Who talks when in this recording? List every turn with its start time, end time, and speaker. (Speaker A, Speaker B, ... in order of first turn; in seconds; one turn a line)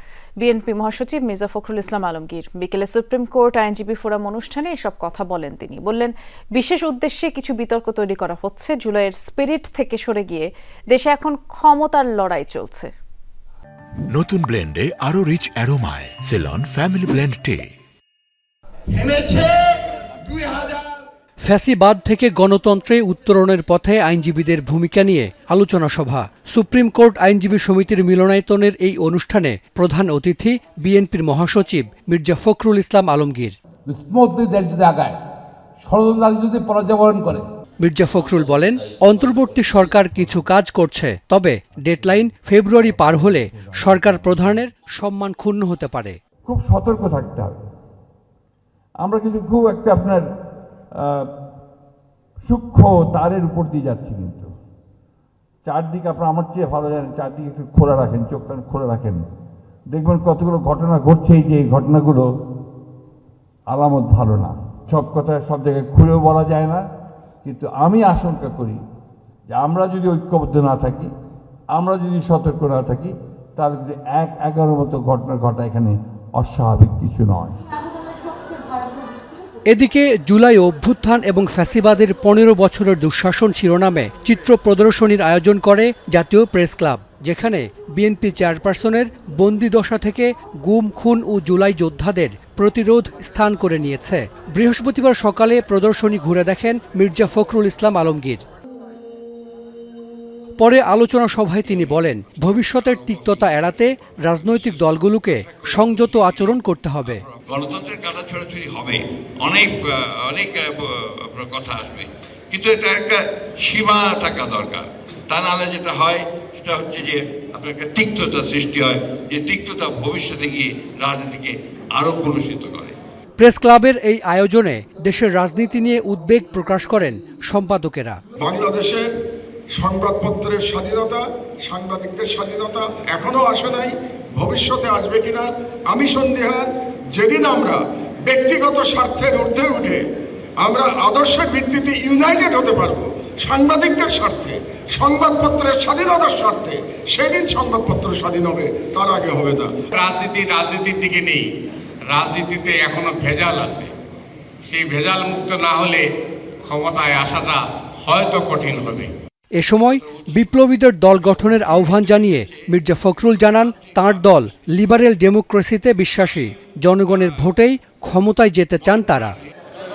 Speaker A: 0.4-12.9
Speaker B: 14.1-17.7
Speaker C: 21.4-33.5
Speaker D: 33.9-35.2
Speaker D: 35.8-37.4
Speaker C: 37.8-46.2
Speaker E: 46.5-47.6
Speaker E: 49.0-50.2
Speaker E: 51.0-51.3
Speaker E: 52.5-54.5
Speaker E: 55.6-59.2
Speaker E: 59.9-62.3
Speaker E: 63.7-66.8
Speaker E: 67.4-68.8
Speaker E: 69.5-71.1
Speaker E: 71.8-77.6
Speaker C: 79.7-98.4
Speaker C: 100.6-107.2
Speaker F: 107.3-122.9
Speaker C: 123.4-128.2
Speaker G: 128.4-129.1
Speaker G: 129.8-140.0
Speaker G: 140.6-149.7
Speaker H: 149.9-151.5
Speaker H: 152.1-153.9
Speaker H: 154.7-156.0
Speaker H: 156.7-159.1
Speaker C: 159.6-169.4